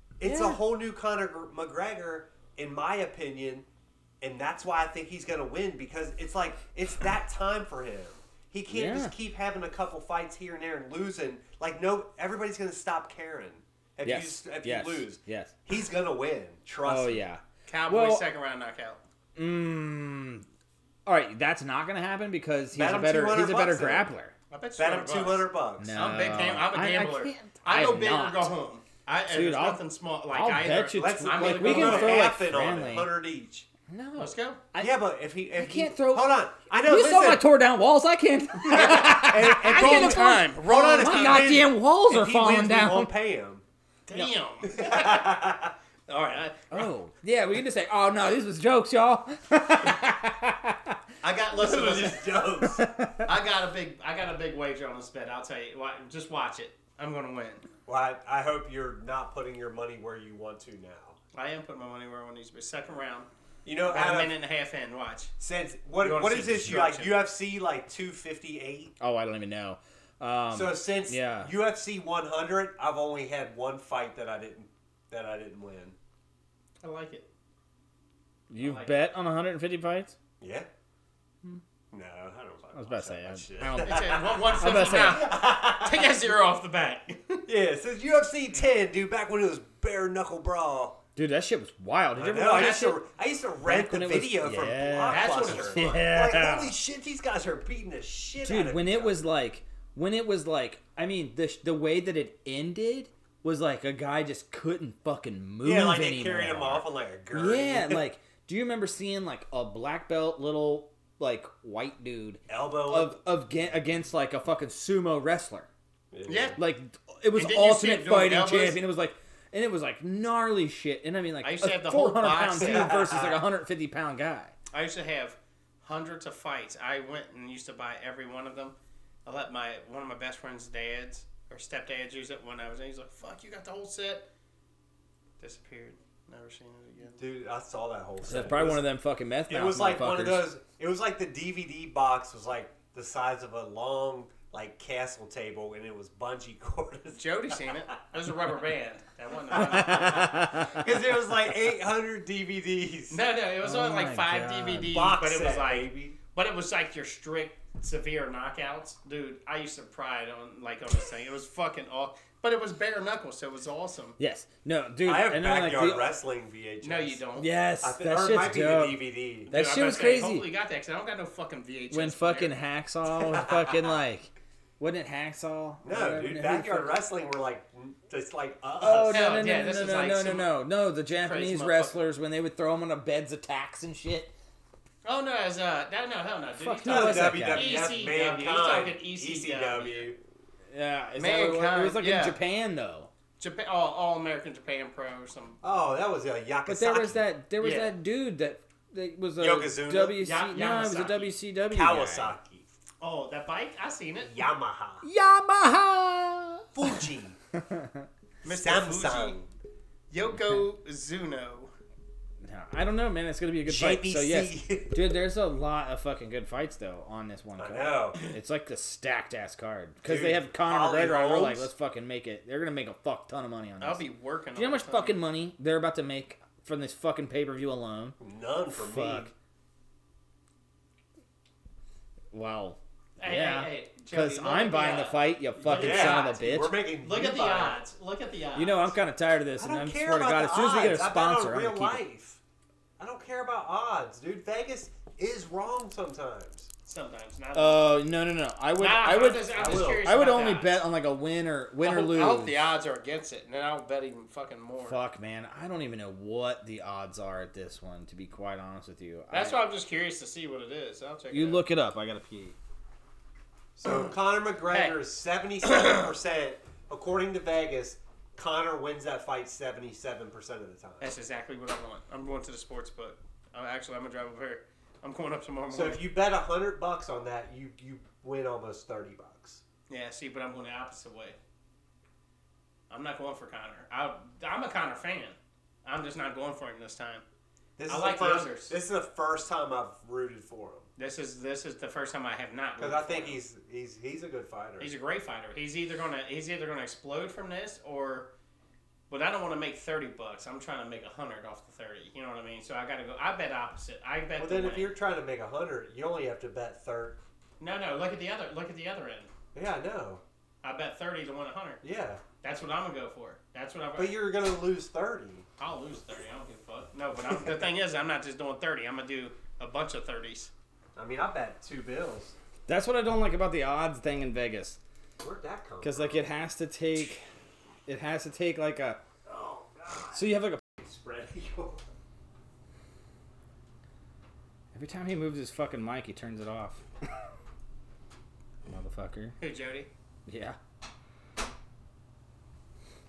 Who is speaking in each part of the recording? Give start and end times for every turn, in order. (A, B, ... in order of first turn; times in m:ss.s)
0:00.2-0:03.6 A
0:00.2-0:00.6 B
0:04.2-0:17.2 A
0:08.7-0:09.1 B
0:14.0-0:15.6 B
0:16.8-0:18.2 B
0:17.7-0:19.0 C
0:19.3-0:20.4 B
0:21.0-0:24.3 B
0:22.7-0:24.1 A
0:24.5-0:32.3 C
0:24.8-0:26.0 A
0:25.8-0:28.5 B
0:29.3-0:33.1 B
0:30.9-0:33.7 A
0:33.9-0:35.0 B
0:34.2-0:34.6 C
0:34.8-0:37.5 A
0:35.5-0:43.1 B
0:38.7-0:41.6 C
0:38.7-0:43.6 A
0:44.1-0:45.4 C
0:44.6-0:45.7 A
0:46.1-0:46.9 C
0:46.7-0:51.0 B
0:51.2-0:52.4 C
0:51.5-0:52.9 A
0:52.6-0:53.3 B
0:53.2-0:57.6 C
0:57.8-1:01.2 A
1:01.3-1:03.3 C
1:03.6-1:04.3 A
1:03.8-1:05.3 C
1:05.4-1:08.9 A
1:06.0-1:07.2 C
1:09.0-1:11.5 B
1:10.5-1:16.0 A
1:16.8-1:17.2 C
1:18.5-1:20.2 B
1:18.6-1:19.0 C
1:20.4-1:20.7 A
1:21.9-1:26.2 A
1:22.7-1:25.3 B
1:23.8-1:27.4 C
1:27.4-1:31.0 A
1:31.2-1:33.0 B
1:32.1-1:39.2 A
1:33.6-1:36.8 B
1:35.1-1:36.0 C
1:38.4-1:55.7 B
1:45.6-1:48.0 A
1:52.5-1:53.2 A
1:56.1-1:56.6 A
1:56.3-1:56.6 C
1:56.6-2:04.5 B
1:57.4-1:58.8 C
2:01.4-2:03.0 C
2:02.6-2:03.4 A
2:04.7-2:08.7 C
2:09.2-2:14.2 C
2:15.4-2:17.2 C
2:17.2-2:18.8 A
2:18.2-2:20.5 B
2:19.5-2:27.7 A
2:27.2-2:30.4 C
2:29.5-2:30.8 B
2:29.5-2:33.2 A
2:33.1-2:44.2 C
2:33.6-2:35.0 B
2:34.8-2:36.2 A
2:44.2-2:46.1 B
2:45.0-2:47.2 A
2:46.8-2:47.5 C
2:47.4-2:50.5 B
2:47.8-2:49.5 A
2:49.5-2:52.5 C
2:51.9-2:57.0 B
2:55.8-2:59.4 A
2:58.8-3:04.3 B
2:59.1-3:00.5 C
3:01.2-3:02.0 C
3:05.0-3:10.1 C
3:06.5-3:07.8 B
3:06.8-3:10.2 A
3:10.7-3:13.1 B
3:11.2-3:12.4 C
3:13.4-3:15.6 C
3:15.6-3:17.2 A
3:16.6-3:22.4 B
3:17.6-3:17.9 C
3:19.4-3:20.4 A
3:20.2-3:21.3 C
3:21.7-3:22.7 A
3:23.0-3:24.4 C
3:24.2-3:25.0 A
3:25.0-3:28.1 B
3:26.7-3:27.4 A
3:28.4-3:29.4 C
3:28.5-3:29.5 A
3:30.1-3:31.7 C
3:30.3-3:30.6 B
3:32.4-3:44.0 B
3:33.6-3:35.0 A
3:37.6-3:38.2 A
3:40.0-3:41.7 A
3:43.8-3:45.2 C
3:44.6-3:48.2 B
3:48.2-3:49.3 A
3:48.7-3:49.3 B
3:52.3-3:56.8 B
3:53.2-3:58.9 C
3:55.6-3:57.8 A
3:58.5-4:02.0 B
3:59.6-4:02.4 A
4:03.0-4:06.7 A
4:06.8-4:08.0 C
4:07.5-4:12.7 B
4:08.8-4:10.8 C
4:09.6-4:10.0 A
4:11.8-4:15.0 C
4:14.8-4:19.6 B
4:19.3-4:21.6 C
4:21.3-4:22.6 B
4:23.8-4:31.1 A
4:24.7-4:25.0 C
4:25.7-4:26.0 C
4:31.0-4:36.0 C
4:35.7-4:39.6 A
4:39.9-4:41.4 C
4:42.9-4:47.2 C
4:47.8-4:50.9 A
4:47.9-4:48.8 C
4:51.0-4:53.4 C
4:52.8-4:54.9 A
4:54.8-4:58.3 C
4:59.1-5:04.9 C
5:04.4-5:07.2 A
5:07.6-5:09.3 C
5:09.5-5:10.2 A
5:10.6-5:11.8 C
5:11.8-5:12.2 A
5:12.4-5:14.2 C
5:14.0-5:15.4 A
5:15.6-5:20.5 C
5:21.0-5:22.4 A
5:22.7-5:24.8 B
5:25.2-5:26.3 A
5:25.8-5:27.2 B
5:27.8-5:29.0 B
5:29.2-5:31.8 A
5:30.1-5:30.6 B
5:34.7-5:36.8 B
5:38.7-5:39.4 B
5:39.4-5:39.9 C
5:40.3-5:40.6 B